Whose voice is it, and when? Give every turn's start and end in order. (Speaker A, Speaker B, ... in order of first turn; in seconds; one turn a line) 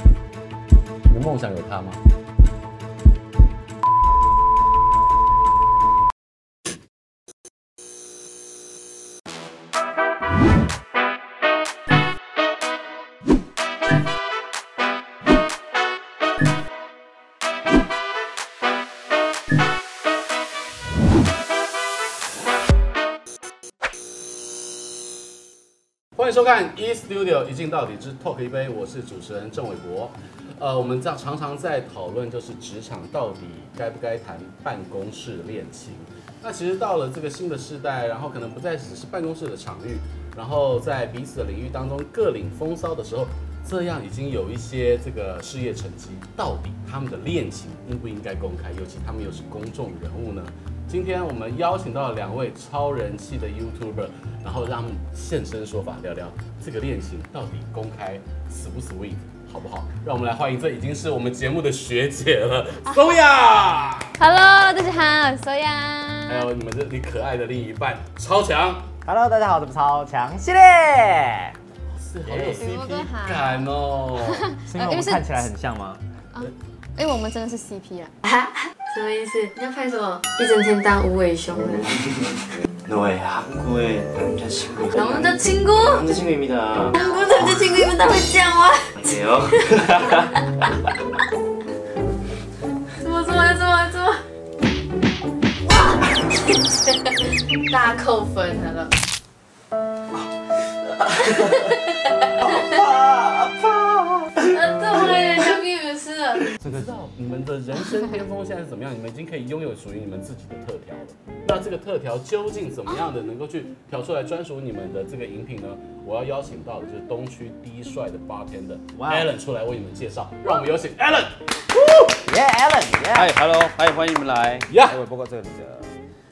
Speaker A: 1.1-2.0
Speaker A: 26.1-64.2
Speaker B: 64.2-66.5
Speaker A: 66.3-68.9
Speaker C: 69.0-71.5
Speaker A: 71.9-74.5
Speaker C: 72.2-72.7
Speaker B: 72.4-73.7
Speaker B: 74.2-75.5
Speaker C: 74.7-76.0
Speaker B: 76.3-78.1
Speaker D: 78.2-81.8
Speaker E: 81.6-87.5
Speaker D: 84.9-86.0
Speaker D: 87.0-88.9
Speaker E: 89.0-90.3
Speaker D: 93.0-94.2
Speaker D: 97.3-98.9
Speaker D: 101.3-101.8
Speaker D: 102.4-102.8
Speaker E: 102.6-104.3
Speaker D: 104.5-106.5
Speaker C: 106.6-107.0
Speaker A: 106.6-122.1
Speaker C: 118.9-119.3
Speaker C: 122.2-123.3
Speaker F: 123.1-125.9
Speaker A: 124.7-125.0